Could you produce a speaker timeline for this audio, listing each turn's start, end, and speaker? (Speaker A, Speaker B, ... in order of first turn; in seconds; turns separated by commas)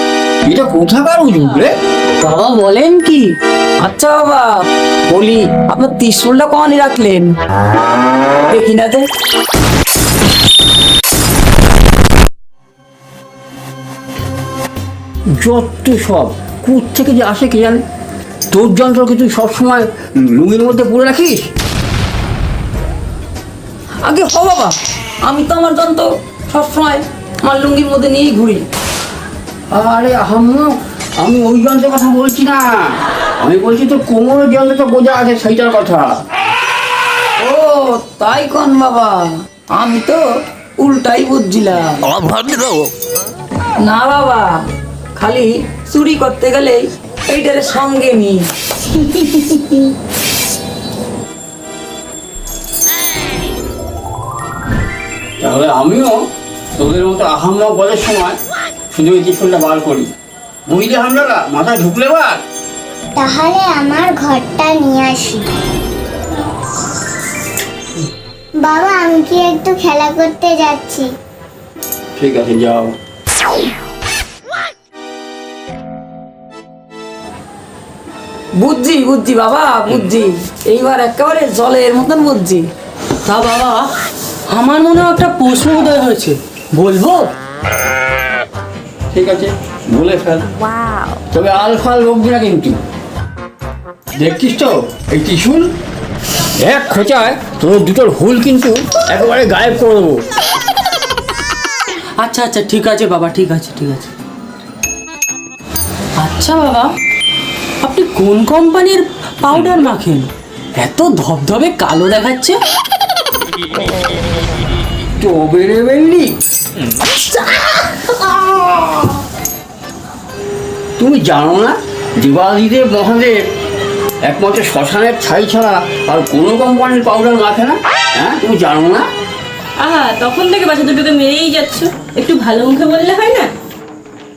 Speaker A: 0.4-1.7, Speaker B: 2.2-3.3, Speaker C: 3.8-4.5, Speaker C: 5.1-7.3, Speaker C: 8.5-9.1, Speaker A: 15.4-17.8, Speaker A: 18.5-21.5, Speaker C: 24.0-28.6, Speaker A: 29.7-36.2, Speaker C: 37.4-40.2, Speaker C: 40.8-42.0, Speaker A: 42.3-42.6, Speaker C: 43.8-44.6, Speaker C: 45.1-49.9, Speaker A: 55.4-56.2, Speaker A: 56.8-58.4, Speaker A: 58.9-60.1, Speaker A: 60.7-62.4, Speaker D: 63.1-65.5, Speaker D: 68.6-71.1, Speaker A: 72.2-72.9, Speaker C: 78.6-82.7, Speaker B: 83.2-83.9, Speaker B: 84.5-87.3, Speaker A: 89.1-90.5, Speaker A: 91.3-92.8, Speaker A: 94.1-95.7, Speaker A: 96.6-100.2, Speaker B: 102.2-104.1, Speaker B: 106.2-106.9, Speaker B: 107.8-112.6, Speaker A: 115.2-116.3, Speaker A: 121.0-123.4, Speaker A: 124.2-129.1, Speaker E: 129.8-133.5